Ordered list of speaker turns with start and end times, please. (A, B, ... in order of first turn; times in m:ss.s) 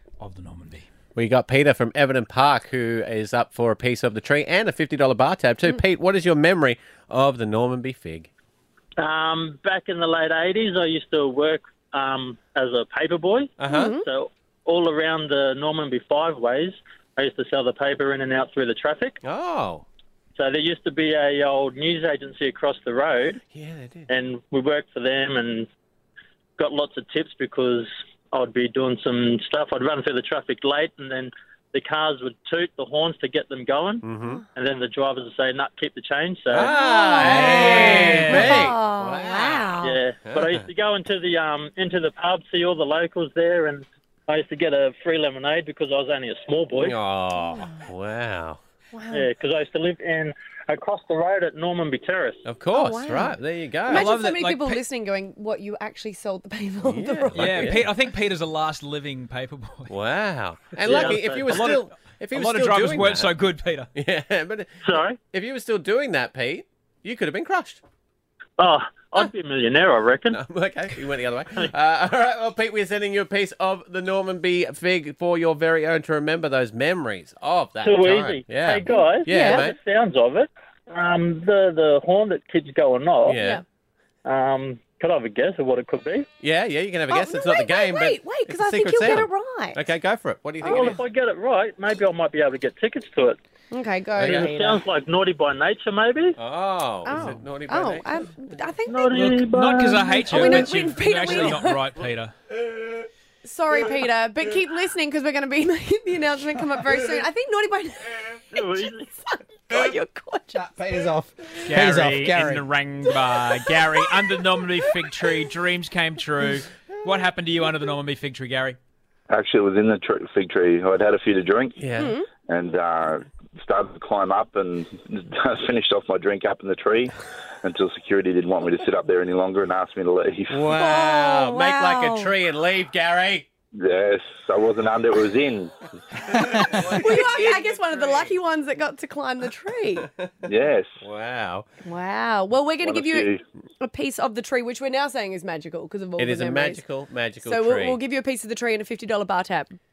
0:00.2-0:00.8 A
0:01.2-0:08.3 B
0:09.0-0:19.2 C
0:13.6-0:13.9 B
0:13.7-0:14.0 D
0:19.2-0:19.8 B
0:20.4-0:23.4 C
0:23.4-0:24.1 B
0:24.1-0:25.7 C
0:26.6-0:36.7 C
0:34.0-0:34.4 B
0:36.5-0:40.6 B
0:36.6-0:40.0 D
0:37.2-0:38.5 A
0:39.8-0:47.0 C
0:46.8-0:48.6 B
0:48.9-0:49.3 D
0:49.1-0:52.4 C
0:52.4-0:54.1 B
0:52.7-0:57.7 D
0:53.9-0:54.8 A
0:56.8-0:57.8 B
0:57.3-0:59.9 A
0:59.9-1:03.3 B
1:00.8-1:01.7 C
1:00.9-1:03.9 A
1:03.9-1:07.8 B
1:04.8-1:05.2 C
1:08.6-1:10.4 C
1:10.3-1:19.8 B
1:17.8-1:23.4 C
1:18.9-1:19.7 D
1:23.2-1:23.6 B
1:23.3-1:23.6 D
1:24.2-1:26.3 C
1:26.4-1:31.0 B
1:27.1-1:29.8 D
1:30.6-1:31.0 D
1:30.6-1:33.4 C
1:33.7-1:34.8 D
1:34.2-1:34.5 B
1:34.2-1:36.4 C
1:36.4-1:38.1 B
1:37.0-1:39.4 D
1:38.9-1:40.6 C
1:39.2-1:42.3 A
1:40.3-1:41.8 D
1:43.4-1:50.6 D
1:48.5-1:49.1 C
1:50.5-1:52.6 E
1:51.7-1:58.8 A
1:59.3-2:01.8 F
2:01.8-2:02.1 B
2:02.0-2:02.2 D
2:02.4-2:10.7 F
2:10.5-2:13.5 B
2:10.7-2:12.3 D
2:13.8-2:15.7 F
2:16.3-2:18.4 B
2:17.0-2:20.1 D
2:20.4-2:20.9 F
2:21.0-2:21.6 B
2:21.8-2:23.3 D
2:22.8-2:23.4 F
2:23.8-2:26.8 D
2:26.2-2:28.0 B
2:27.4-2:29.8 D